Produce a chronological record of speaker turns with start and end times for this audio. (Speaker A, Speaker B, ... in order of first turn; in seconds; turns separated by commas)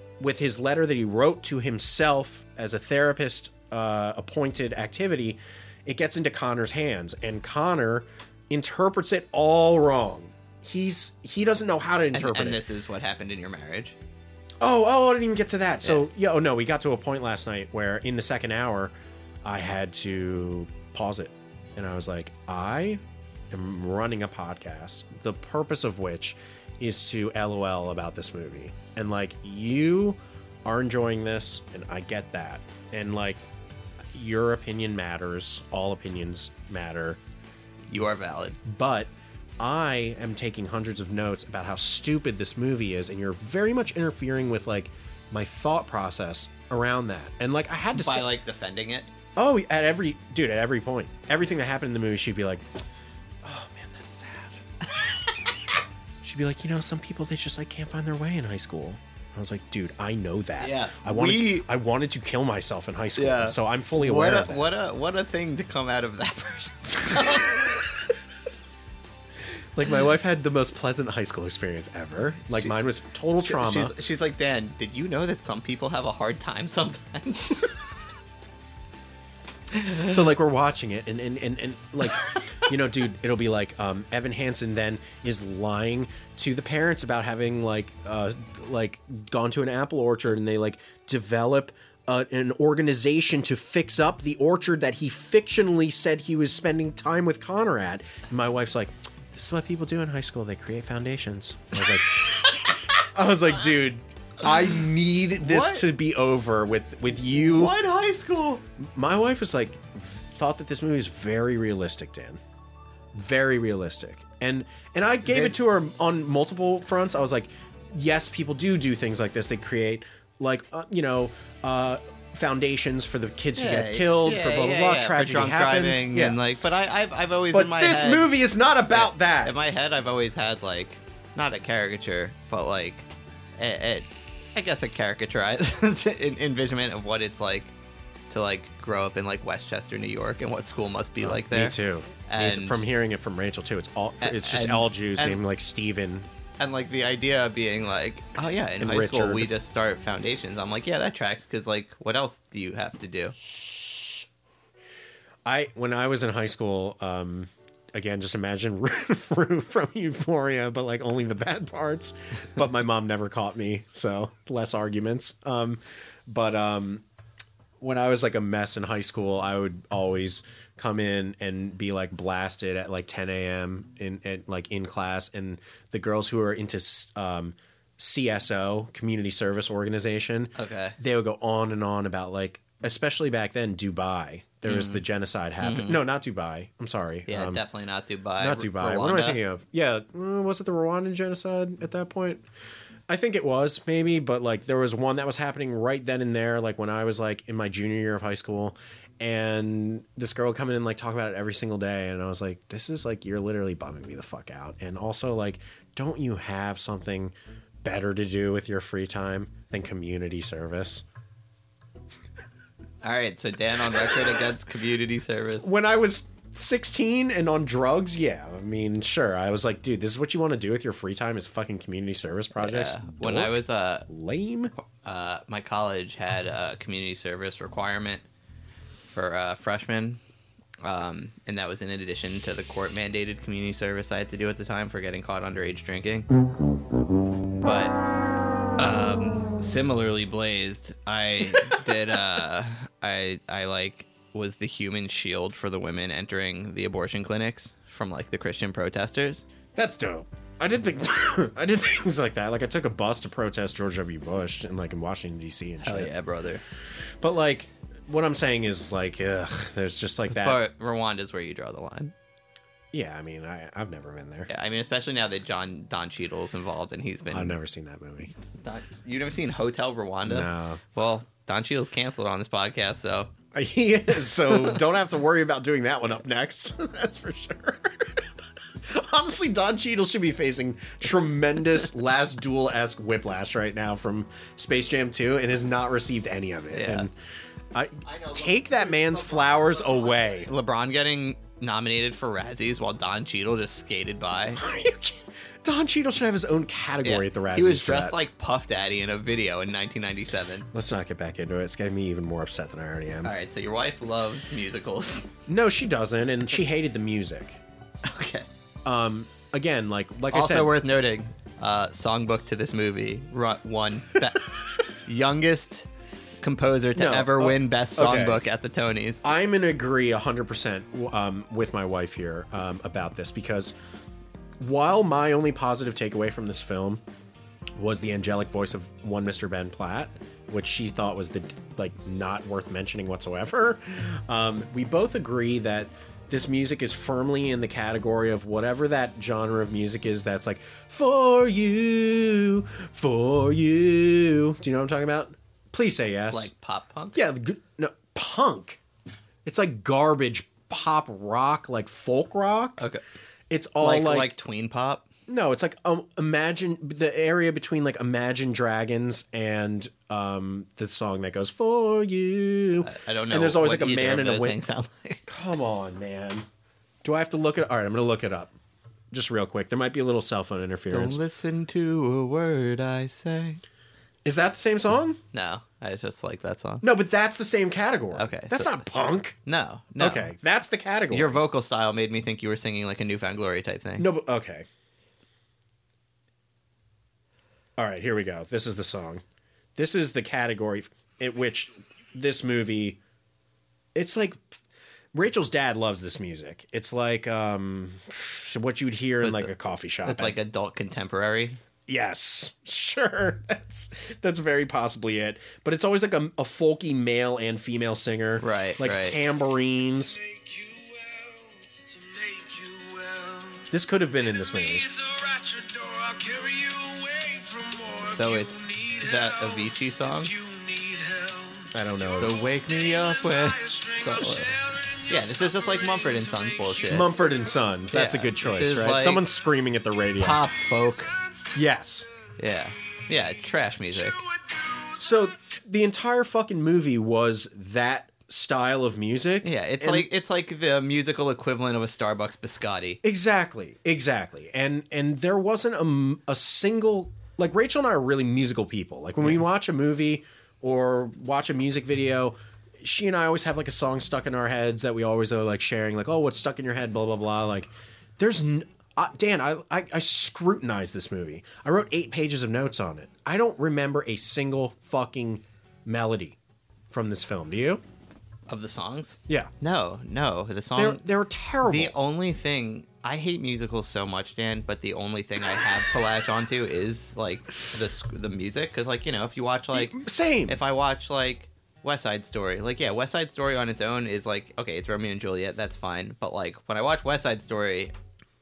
Speaker A: 0.2-12.6, Speaker B: 12.1-13.9, Speaker A: 14.6-18.9, Speaker A: 19.4-23.0, Speaker A: 23.5-33.4, Speaker A: 34.1-37.2, Speaker B: 37.9-38.6, Speaker A: 38.6-48.3, Speaker B: 47.9-49.1, Speaker A: 49.4-52.7, Speaker A: 53.4-54.6, Speaker A: 56.2-64.7, Speaker B: 60.6-61.6, Speaker B: 63.1-68.0, Speaker A: 69.8-73.9, Speaker B: 73.4-77.7, Speaker B: 79.8-80.1, Speaker A: 79.9-107.8, Speaker B: 101.8-102.8, Speaker B: 105.4-105.8, Speaker B: 107.4-108.6, Speaker A: 108.8-112.4, Speaker A: 113.1-126.4, Speaker B: 115.2-115.6, Speaker B: 123.5-128.4, Speaker A: 127.5-129.5, Speaker B: 128.9-137.7, Speaker B: 138.3-142.8, Speaker A: 141.2-146.3, Speaker B: 144.2-145.4, Speaker B: 146.6-153.3, Speaker A: 148.8-149.5, Speaker A: 155.4-167.0, Speaker A: 167.8-187.6, Speaker B: 180.6-181.0, Speaker B: 184.7-185.0, Speaker B: 185.6-186.0, Speaker B: 187.3-189.4, Speaker A: 188.4-192.4, Speaker A: 193.1-211.0, Speaker B: 213.0-215.7, Speaker A: 215.6-224.7, Speaker B: 222.6-224.1, Speaker B: 224.8-228.2, Speaker B: 229.1-230.2, Speaker B: 230.8-236.3, Speaker B: 237.6-238.0, Speaker B: 238.8-249.4, Speaker A: 249.8-256.1, Speaker B: 255.8-256.6, Speaker A: 257.2-260.6, Speaker B: 260.3-262.1, Speaker A: 262.9-264.5, Speaker B: 264.5-267.6, Speaker A: 267.3-268.3, Speaker B: 268.6-273.3, Speaker A: 270.2-270.8, Speaker A: 273.5-278.3, Speaker B: 274.5-274.8, Speaker A: 278.8-287.1, Speaker B: 286.7-287.1, Speaker A: 287.7-290.5, Speaker B: 288.0-294.6, Speaker A: 294.5-298.1, Speaker B: 297.0-300.7, Speaker A: 300.7-303.3, Speaker B: 303.2-305.3, Speaker A: 305.5-307.6, Speaker B: 308.0-308.5, Speaker A: 308.8-310.7, Speaker B: 310.3-315.9, Speaker B: 316.4-319.2, Speaker A: 316.9-318.4, Speaker A: 319.2-323.7, Speaker A: 324.6-327.0, Speaker A: 327.8-346.5, Speaker B: 346.3-347.2, Speaker A: 347.1-348.8, Speaker A: 349.4-352.8, Speaker A: 353.5-354.3, Speaker B: 353.8-355.1, Speaker A: 355.3-364.6, Speaker B: 362.8-365.3, Speaker A: 365.3-366.4, Speaker A: 367.0-368.5, Speaker A: 369.1-371.2, Speaker B: 370.9-373.6, Speaker A: 374.2-375.2, Speaker B: 375.3-376.8, Speaker A: 376.8-379.4, Speaker B: 378.1-378.8, Speaker B: 379.4-380.3, Speaker A: 380.0-381.4, Speaker B: 381.1-384.1, Speaker A: 384.0-384.6, Speaker A: 387.8-389.2, Speaker A: 389.8-393.0, Speaker A: 393.9-394.4, Speaker A: 395.1-400.4, Speaker B: 399.2-399.5, Speaker B: 400.0-401.6, Speaker A: 401.9-410.2, Speaker B: 408.4-409.2, Speaker C: 410.2-413.7, Speaker A: 413.7-414.9, Speaker C: 414.2-427.6, Speaker B: 418.0-420.3, Speaker A: 421.7-422.3, Speaker B: 422.1-424.5, Speaker B: 425.1-427.1, Speaker A: 426.9-430.4, Speaker B: 427.9-429.2, Speaker B: 430.2-431.1, Speaker C: 430.6-431.6, Speaker A: 431.5-432.1, Speaker B: 432.4-434.2, Speaker C: 432.5-435.2, Speaker A: 434.9-440.1, Speaker B: 439.4-443.0, Speaker A: 443.0-466.4, Speaker A: 466.9-467.8, Speaker B: 468.5-471.0, Speaker A: 470.7-471.9, Speaker B: 471.6-487.9, Speaker A: 479.7-480.6